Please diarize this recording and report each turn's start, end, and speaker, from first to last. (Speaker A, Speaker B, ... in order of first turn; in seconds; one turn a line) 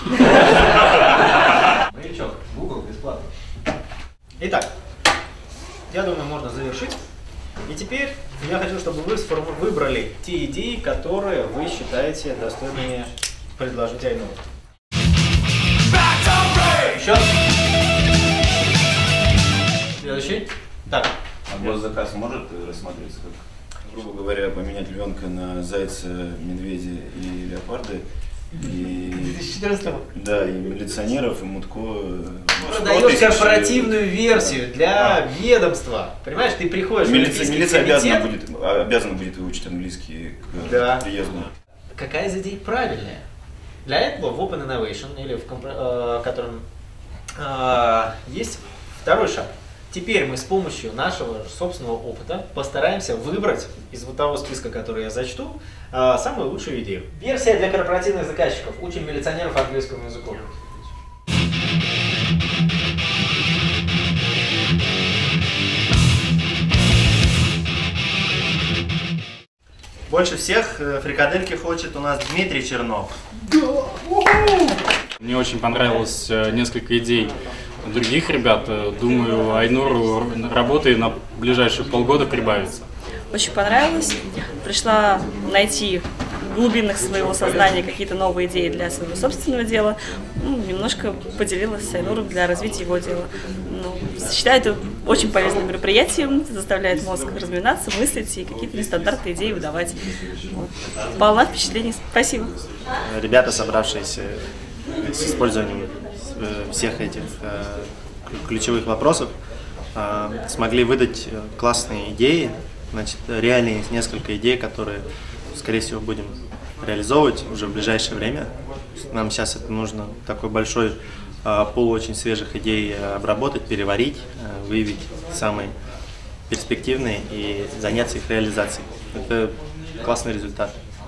Speaker A: 0.3-1.1
Speaker A: 1.6-3.3
Speaker A: 4.4-4.7
Speaker A: 5.9-7.0
Speaker A: 7.7-14.4
Speaker A: 16.7-17.3
Speaker A: 20.0-21.1
Speaker B: 21.5-28.0
Speaker B: 28.6-29.4
Speaker A: 29.1-30.1
Speaker B: 30.1-34.6
Speaker A: 32.6-38.3
Speaker B: 37.0-41.5
Speaker A: 40.6-41.1
Speaker A: 41.9-43.2
Speaker A: 43.8-46.6
Speaker A: 47.4-60.5
Speaker C: 70.1-73.2
Speaker D: 75.2-82.9
Speaker E: 83.3-100.0
Speaker E: 100.5-102.5
Speaker C: 103.0-104.4
Speaker C: 105.0-109.3
Speaker C: 110.0-118.5
Speaker C: 119.1-125.7
Speaker C: 126.5-130.8